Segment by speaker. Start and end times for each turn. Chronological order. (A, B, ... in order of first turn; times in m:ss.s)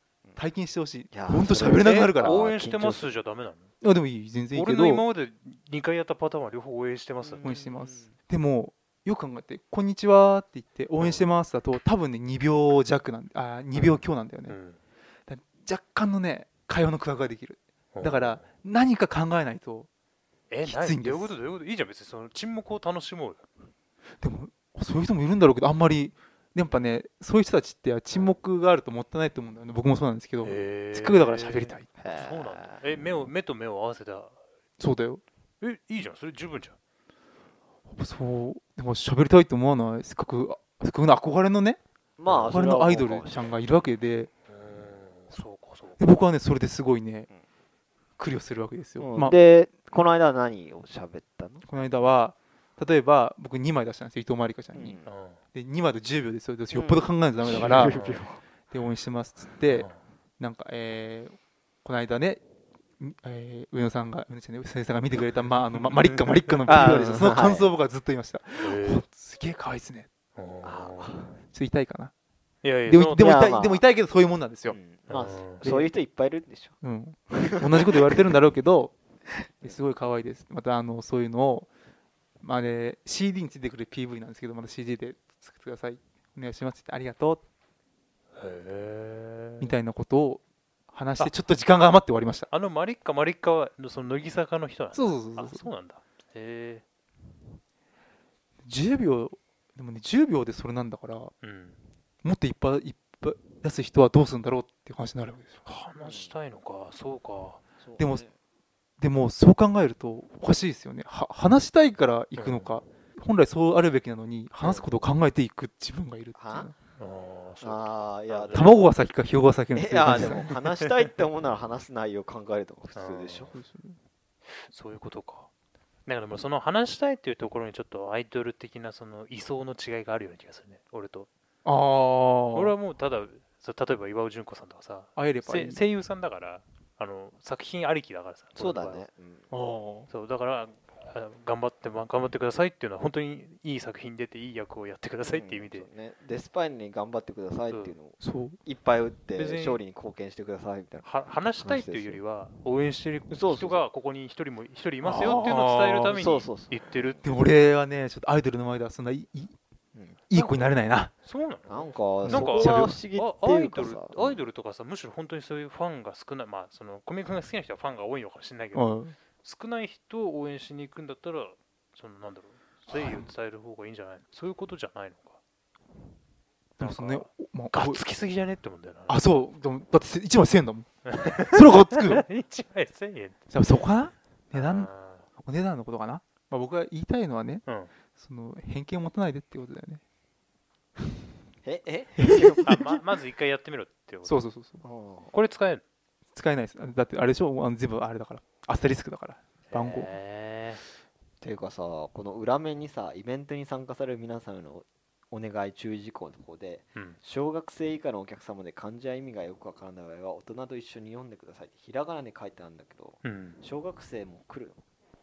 0:00.4-0:02.5 A
0:01.1-0:03.1 B
0:01.8-0:03.7 C
0:03.8-0:05.0 A
0:04.5-0:07.6 C
0:07.2-0:08.1 B
0:07.4-0:14.6 A
0:11.0-0:11.3 C
0:13.7-0:14.8 C
0:15.3-0:19.9 A
0:17.9-0:18.4 C
0:20.5-0:23.4 C
0:20.6-0:21.4 A
0:24.2-0:31.9 A
0:30.4-0:34.4 C
0:32.0-0:32.8 B
0:34.8-0:35.2 A
0:35.6-0:36.8 C
0:37.9-0:44.3 A
0:42.2-0:43.5 B
0:42.3-0:42.6 C
0:44.5-0:46.0 C
0:46.0-0:47.3 A
0:48.2-0:49.4 A
0:49.0-0:51.6 B
0:51.6-0:55.0 A
0:54.7-0:55.1 B
0:55.0-0:55.4 C
0:55.5-0:58.0 A
0:56.7-0:58.4 B
0:57.6-0:58.2 C
0:58.7-1:02.4 A
0:59.7-1:00.0 C
1:03.0-1:10.1 A
1:05.8-1:07.3 C
1:06.7-1:07.7 B
1:08.6-1:09.0 C
1:10.4-1:11.2 C
1:10.6-1:11.3 B
1:11.5-1:12.1 A
1:12.6-1:13.4 C
1:12.9-1:14.8 A
1:13.2-1:13.8 B
1:14.7-1:16.8 B
1:15.1-1:15.7 C
1:15.6-1:15.9 A
1:16.8-1:19.0 A
1:17.3-1:17.9 B
1:19.6-1:21.7 A
1:22.4-1:27.4 A
1:28.4-1:29.8 C
1:29.6-1:32.5 A
1:32.5-1:36.8 C
1:34.9-1:35.7 A
1:38.6-1:41.3 A
1:41.4-1:41.8 C
1:42.2-1:45.6 A
1:45.6-1:47.6 C
1:46.0-1:46.4 B
1:47.8-1:48.3 B
1:48.0-1:48.2 A
1:49.0-1:56.7 A
1:52.4-1:52.7 C
1:56.4-1:56.7 B
1:57.0-1:58.8 C
1:57.6-1:58.8 B
1:58.5-2:00.5 A
1:59.8-2:03.5 B
2:00.2-2:01.0 C
2:03.0-2:03.5 C
2:03.5-2:04.0 A
2:04.6-2:05.5 C
2:06.1-2:11.3 C
2:11.6-2:12.7 A
2:12.5-2:19.0 C
2:15.2-2:15.8 A
2:18.6-2:19.5 B
2:19.5-2:20.1 A
2:20.1-2:25.9 C
2:25.3-2:31.0 B
2:27.7-2:28.0 C
2:28.2-2:28.6 A
2:29.3-2:29.8 C
2:31.0-2:37.2 C
2:31.6-2:32.2 B
2:33.3-2:33.8 B
2:35.0-2:36.2 A
2:36.1-2:37.3 B
2:37.2-2:39.6 A
2:40.0-2:40.3 B
2:40.3-2:41.1 A
2:40.4-2:40.7 C
2:41.2-2:55.4 C
2:41.7-2:44.4 B
2:42.2-2:43.0 A
2:48.7-2:49.2 A
2:52.9-2:53.2 A
2:56.8-2:59.3 C
2:56.8-2:58.0 A
2:59.1-3:02.3 A
3:01.1-3:03.4 C
3:03.5-3:04.9 A
3:04.5-3:05.3 C
3:05.4-3:07.6 A
3:07.7-3:07.9 C
3:08.2-3:10.0 A
3:11.6-3:12.9 B
3:12.2-3:12.8 A
3:12.6-3:14.4 C
3:14.2-3:14.8 A
3:14.8-3:15.3 B
3:15.3-3:15.8 C
3:16.4-3:20.1 A
3:19.7-3:20.8 C
3:21.4-3:34.8 B
3:33.2-3:33.6 C